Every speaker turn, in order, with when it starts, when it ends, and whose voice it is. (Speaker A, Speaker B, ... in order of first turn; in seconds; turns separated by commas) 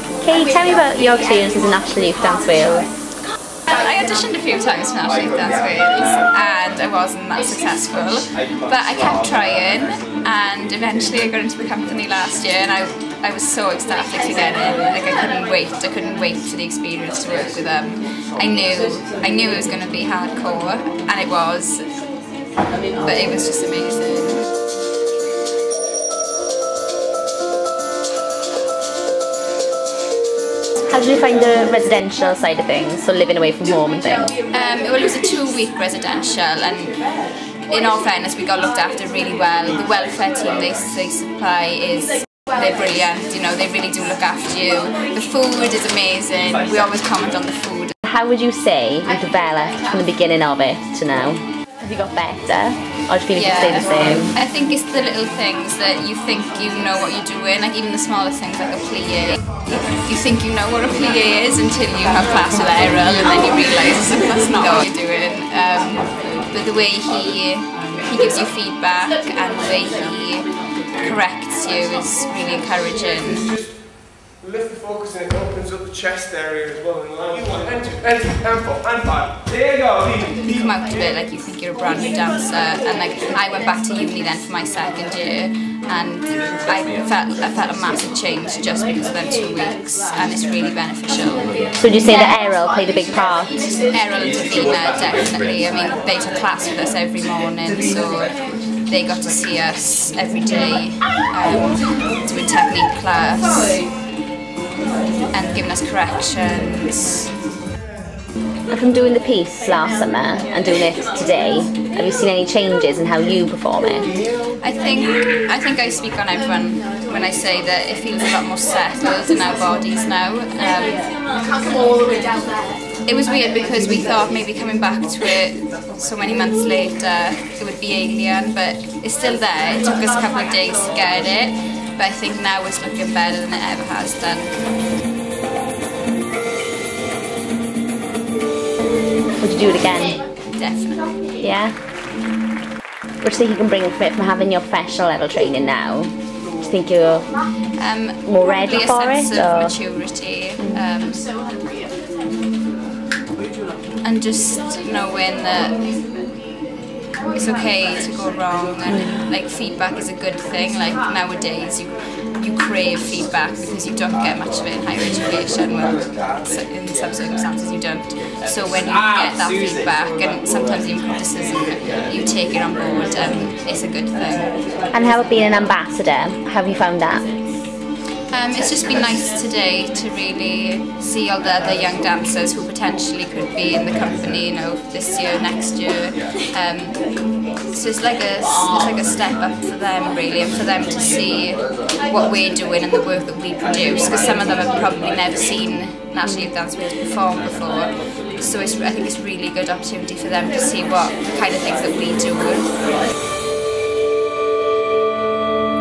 Speaker A: 0.2-2.9, Speaker B: 3.7-21.9, Speaker B: 23.0-24.4, Speaker A: 30.9-34.3, Speaker B: 34.5-36.9, Speaker B: 37.7-47.9, Speaker A: 48.0-54.3, Speaker B: 53.3-73.5, Speaker C: 74.6-77.0, Speaker C: 77.8-78.6, Speaker B: 80.4-91.5, Speaker A: 91.8-93.6, Speaker B: 93.9-98.3, Speaker B: 98.9-103.8, Speaker B: 105.3-107.3, Speaker A: 108.7-114.1, Speaker B: 114.6-121.0, Speaker B: 123.0-134.6, Speaker A: 139.4-140.2, Speaker B: 140.5-141.1, Speaker A: 141.4-141.8, Speaker A: 143.2-147.3, Speaker B: 147.8-151.2, Speaker A: 148.2-149.7, Speaker A: 150.6-150.8, Speaker B: 154.0-155.8, Speaker B: 157.3-174.5, Speaker A: 158.9-159.3, Speaker A: 174.9-177.2, Speaker B: 178.3-187.0, Speaker B: 187.7-202.7, Speaker A: 196.2-196.5